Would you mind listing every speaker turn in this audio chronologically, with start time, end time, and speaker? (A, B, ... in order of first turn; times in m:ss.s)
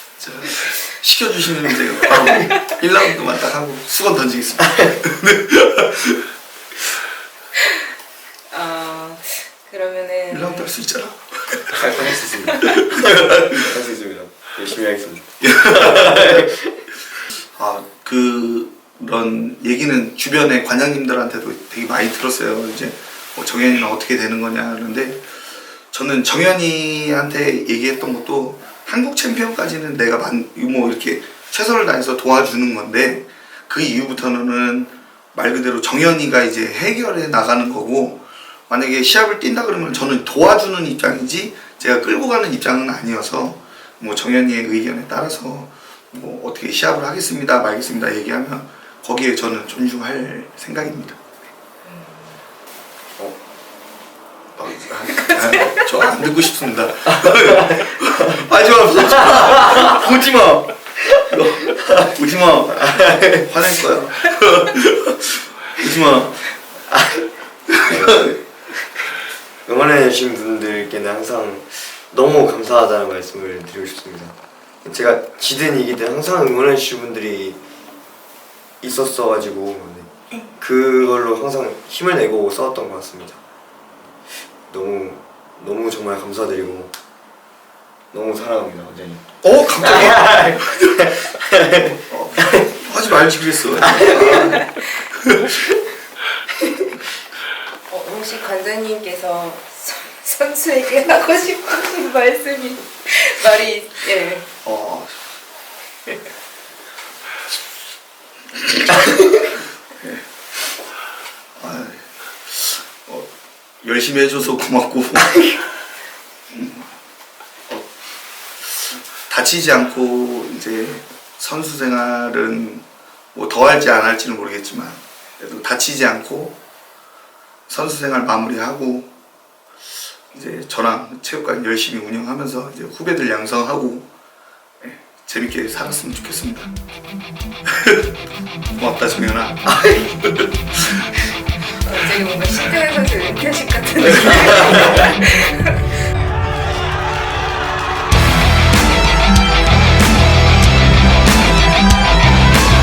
0:00.2-0:06.2 A
0:02.2-0:02.5 B
0:07.6-0:07.9 B
0:08.5-0:10.8 B
0:10.3-0:11.8 A
0:11.7-0:16.8 C
0:12.5-0:12.8 B
0:12.6-0:13.7 A
0:15.4-0:16.5 A
0:17.3-0:25.3 A
0:25.9-0:51.2 A
0:51.8-0:52.4 B
0:54.6-1:06.5 A
0:55.2-0:55.9 B
0:57.1-0:58.4 C
0:59.1-1:00.0 C
1:02.7-1:03.5 C
1:06.9-1:07.3 C
1:07.7-1:08.3 A
1:07.8-1:08.9 C
1:09.7-1:17.6 C
1:18.8-1:23.4 C
1:24.7-1:26.9 C
1:28.1-1:32.6 C
1:29.4-1:31.2 A
1:32.1-1:35.5 A
1:34.0-1:34.7 B
1:37.9-1:44.5 B
1:44.6-1:45.3 A
1:49.0-1:49.4 B
1:51.6-1:53.3 A
1:53.8-1:55.5 A
1:56.5-1:56.9 A
1:58.6-2:06.6 A
2:07.7-2:09.1 A
2:10.3-2:14.1 A
2:14.8-2:16.7 A
2:17.7-2:18.1 A
2:18.7-2:21.1 A
2:19.7-2:20.0 C
2:21.8-2:26.1 B